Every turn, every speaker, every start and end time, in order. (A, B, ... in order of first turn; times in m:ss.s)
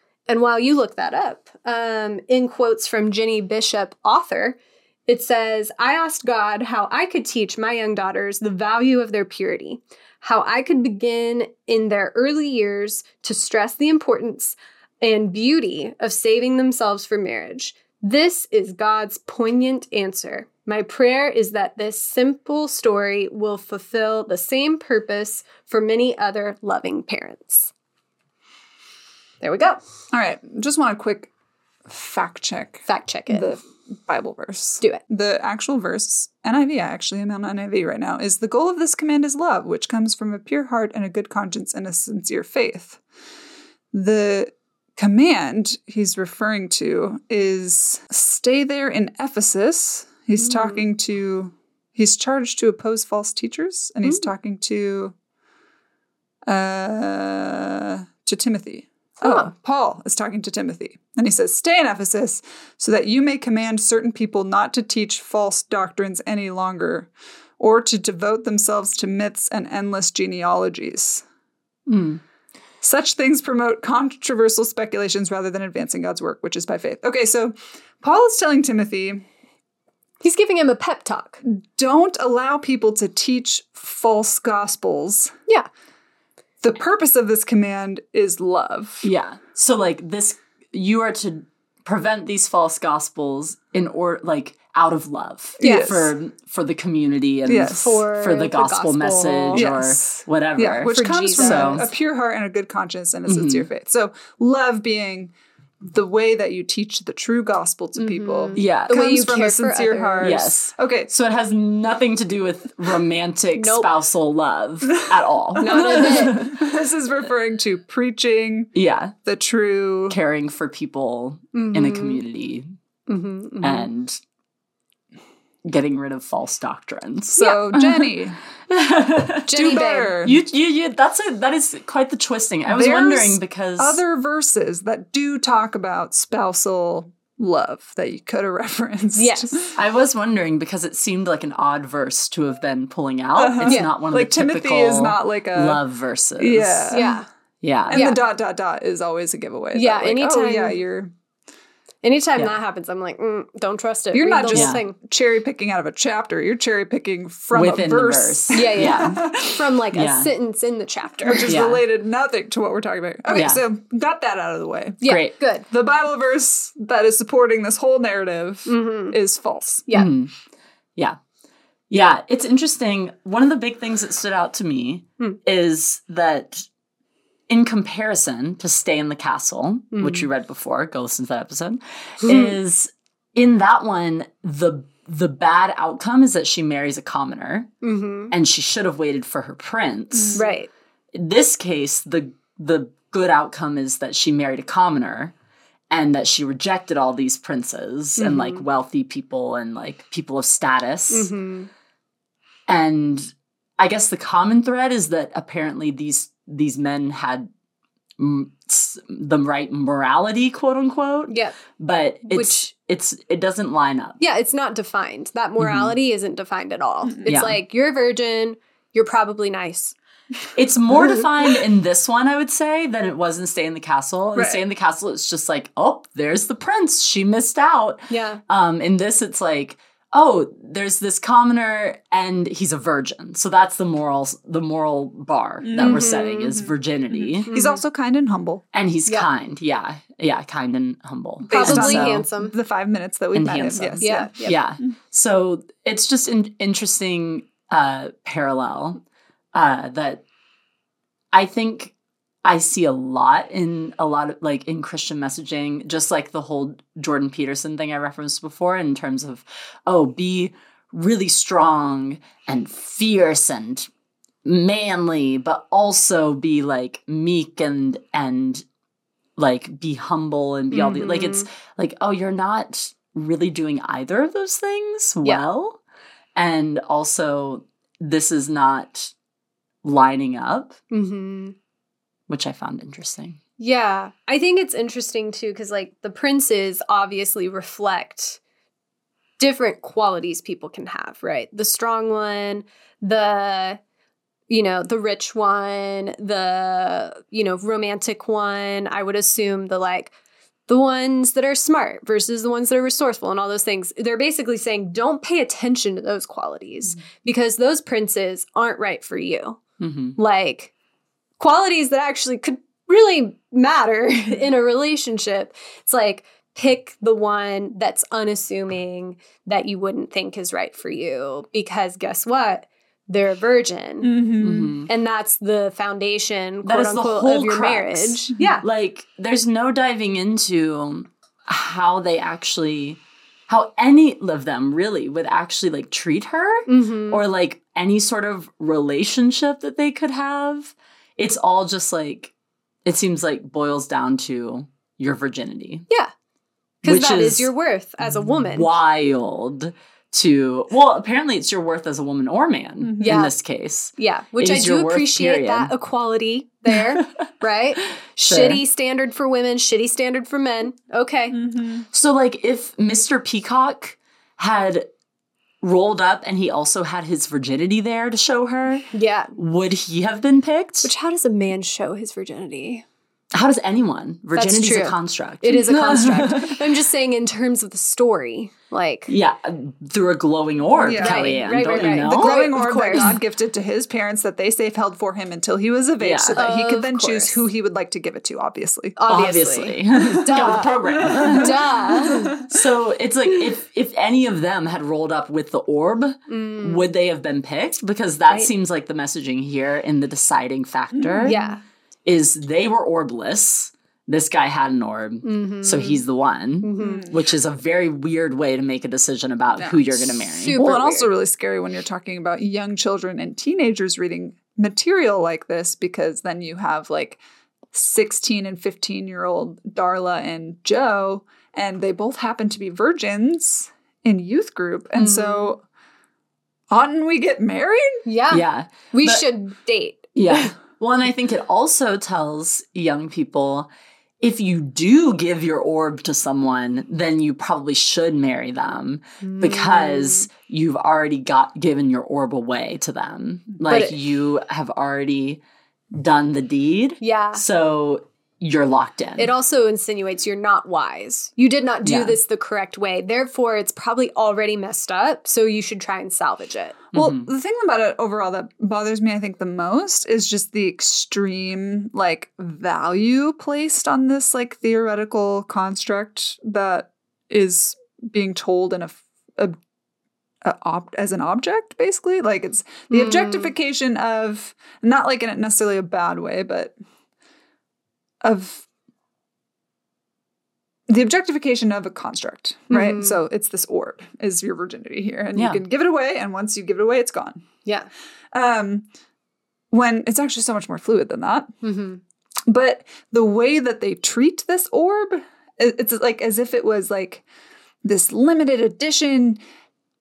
0:00.3-0:27.7 A
0:29.4-0:29.8 A
0:30.1-0:31.3 B
0:31.9-0:43.0 B
0:32.9-0:33.6 A
0:43.9-0:55.2 B
0:50.4-0:50.8 A
0:56.5-1:11.2 B
0:59.2-0:59.5 A
1:11.9-1:12.2 C
1:12.8-1:19.2 B
1:20.2-1:21.4 A
1:21.4-1:25.3 B
1:26.6-1:29.1 B
1:29.0-1:41.9 C
1:35.6-1:36.2 B
1:35.6-1:36.0 A
1:37.5-1:38.0 B
1:37.7-1:39.7 A
1:39.5-1:51.1 B
1:40.9-1:41.9 A
1:43.3-1:43.7 C
1:48.0-1:50.4 A
1:48.6-1:49.0 C
1:50.2-1:56.6 C
1:53.6-1:53.9 A
1:55.6-1:58.7 B
1:55.6-1:56.4 A
1:58.8-1:59.1 C
1:59.2-2:00.2 B
2:00.1-2:02.7 C
2:01.5-2:02.2 A
2:03.1-2:03.9 A
2:03.6-2:04.2 C
2:05.6-2:08.1 C
2:07.4-2:08.4 B
2:08.7-2:14.0 C
2:09.5-2:10.2 A
2:09.6-2:10.4 B
2:12.7-2:19.8 B
2:19.2-2:19.6 A
2:19.8-2:27.1 C
2:23.4-2:25.8 B
2:23.6-2:23.9 A
2:26.4-2:27.2 B
2:26.9-2:27.3 A
2:27.6-2:28.0 C
2:27.9-2:31.1 B
2:27.9-2:28.2 A
2:29.7-2:30.8 A
2:32.0-2:35.0 A
2:34.1-2:39.6 B
2:34.5-2:34.8 C
2:37.5-2:39.2 C
2:38.5-2:41.6 A
2:39.9-2:40.3 C
2:41.2-2:45.0 B
2:41.5-2:41.8 C
2:43.3-2:43.6 C
2:45.0-2:45.7 A
2:45.0-2:45.3 C
2:45.7-2:49.9 B
2:48.7-2:49.2 A
2:49.9-2:50.3 C
2:51.9-2:56.7 C
2:57.5-3:07.7 C
2:59.9-3:00.3 A
3:02.2-3:02.6 A
3:07.8-3:08.3 A
3:08.3-3:10.4 C
3:10.1-3:10.5 B
3:10.4-3:10.7 A
3:11.1-3:15.3 C
3:15.9-3:21.3 C
3:18.2-3:18.6 A
3:21.1-3:21.7 A
3:22.7-3:27.5 C
3:28.2-3:34.2 C
3:31.3-3:31.6 A
3:32.3-3:32.6 A
3:34.2-3:40.0 A
3:35.6-3:36.0 C
3:37.0-3:37.3 B
3:37.3-3:37.6 C
3:40.6-3:57.5 C
3:48.1-3:48.4 A
3:55.6-3:58.6 B
3:55.8-3:56.6 A
3:57.5-3:57.8 A
3:58.7-4:02.3 C
4:01.5-4:04.4 B
4:01.5-4:02.6 A
4:03.3-4:09.0 C
4:04.0-4:04.6 A
4:09.5-4:10.2 C
4:11.3-4:11.9 C
4:12.4-4:23.9 C
4:24.4-4:28.6 C
4:29.4-4:35.8 C
4:30.7-4:31.5 A
4:36.4-4:39.1 C
4:39.8-4:40.8 C
4:40.9-4:41.6 A
4:42.3-4:43.4 C
4:43.6-4:48.4 A
4:49.4-4:53.8 A
4:54.5-5:00.1 A
5:00.7-5:09.6 A
5:09.8-5:10.2 C
5:10.2-5:10.7 A
5:11.4-5:24.3 A
5:24.0-5:24.8 B
5:24.4-5:24.9 C
5:24.9-5:28.6 A
5:26.6-5:42.3 C
5:36.7-5:37.2 A
5:42.8-5:45.9 C
5:46.8-5:47.5 C
5:46.8-5:48.7 A
5:48.4-5:55.7 C
5:52.8-5:53.2 B
5:53.0-5:53.3 A
5:54.0-6:01.4 A
5:56.7-5:57.3 C
5:58.2-5:58.6 C
6:01.3-6:01.9 B
6:01.9-6:04.9 C
6:05.6-6:10.9 C
6:08.9-6:09.3 A
6:10.8-6:12.8 A
6:13.3-6:16.7 C
6:14.4-6:19.1 A
6:19.1-6:23.1 C
6:20.8-6:29.0 B
6:20.9-6:23.1 A
6:26.0-6:26.4 C
6:26.4-6:27.4 A
6:29.0-6:32.4 A
6:29.1-6:41.4 C
6:30.1-6:32.5 B
6:36.3-6:36.9 A
6:41.0-6:41.5 B
6:41.2-6:41.6 A
6:42.0-6:50.6 C
6:45.2-6:46.0 A
6:46.6-6:47.1 A
6:46.8-6:47.2 B
6:49.6-6:57.2 B
6:50.3-6:51.1 A
6:57.7-7:05.6 B
7:05.0-7:05.6 A
7:06.7-7:08.0 B
7:08.0-7:10.5 A
7:08.3-7:09.3 C
7:10.2-7:13.7 C
7:14.2-7:25.4 C
7:19.2-7:20.3 A
7:23.7-7:24.0 A
7:25.9-7:29.3 C
7:27.0-7:27.4 A
7:29.2-7:36.8 A
7:31.8-7:32.2 C
7:36.9-7:37.3 C
7:36.9-7:49.6 B
7:50.4-7:56.7 B
7:52.9-7:53.5 A
7:58.2-7:58.7 B
8:00.9-8:07.4 B
8:02.7-8:03.2 A
8:05.4-8:05.6 C
8:08.3-8:08.9 B
8:09.7-8:11.5 B
8:11.6-8:12.0 A
8:12.5-8:17.2 B
8:17.8-8:19.4 B